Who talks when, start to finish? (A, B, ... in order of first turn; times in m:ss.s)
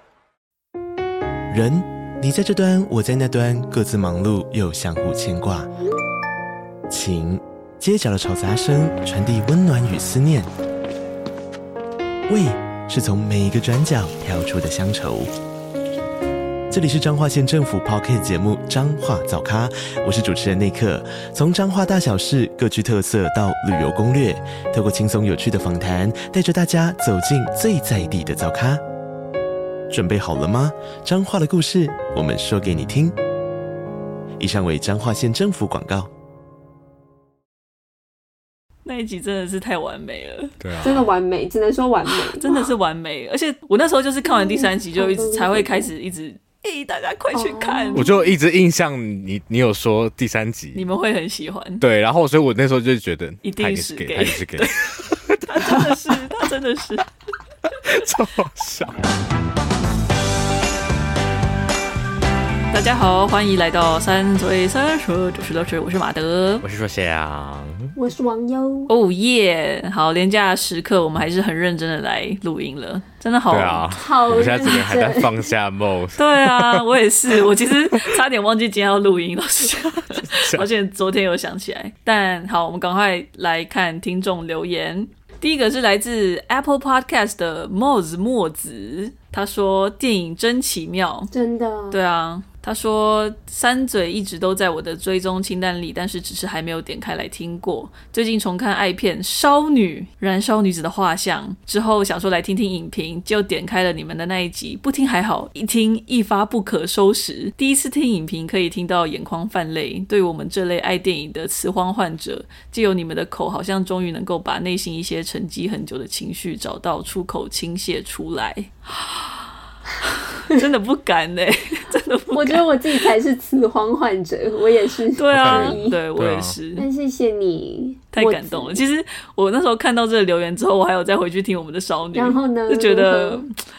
0:01.5-0:05.7 A
0:06.9-0:10.5 A
0:12.3-0:15.3 A
0:16.7-0:28.8 A
0:29.9-0:33.2 A
0:34.4-0:36.1 A
0:38.8-0:40.6 B
0:40.6-0:41.0 C
0:40.8-0:42.7 D
0:42.0-0:48.1 B
0:44.2-0:45.9 D
0:47.3-0:48.3 D
0:47.9-0:50.8 C
0:50.7-0:51.8 B
0:51.8-0:56.2 C
0:53.4-0:54.7 B
0:55.5-0:57.0 B
0:57.8-0:59.0 C
1:02.7-1:06.6 B
1:06.6-1:07.9 C
1:08.0-1:08.9 D
1:08.9-1:14.8 B
1:13.5-1:16.8 C
1:13.9-1:15.5 D
1:16.2-1:31.3 B
1:20.2-1:20.7 C
1:31.3-1:32.0 D
1:31.9-2:02.8 B
2:02.3-2:06.0 D
2:05.1-2:06.8 B
2:05.4-2:06.6 C
2:06.8-2:08.8 D
2:08.1-2:13.5 B
2:12.1-2:13.4 D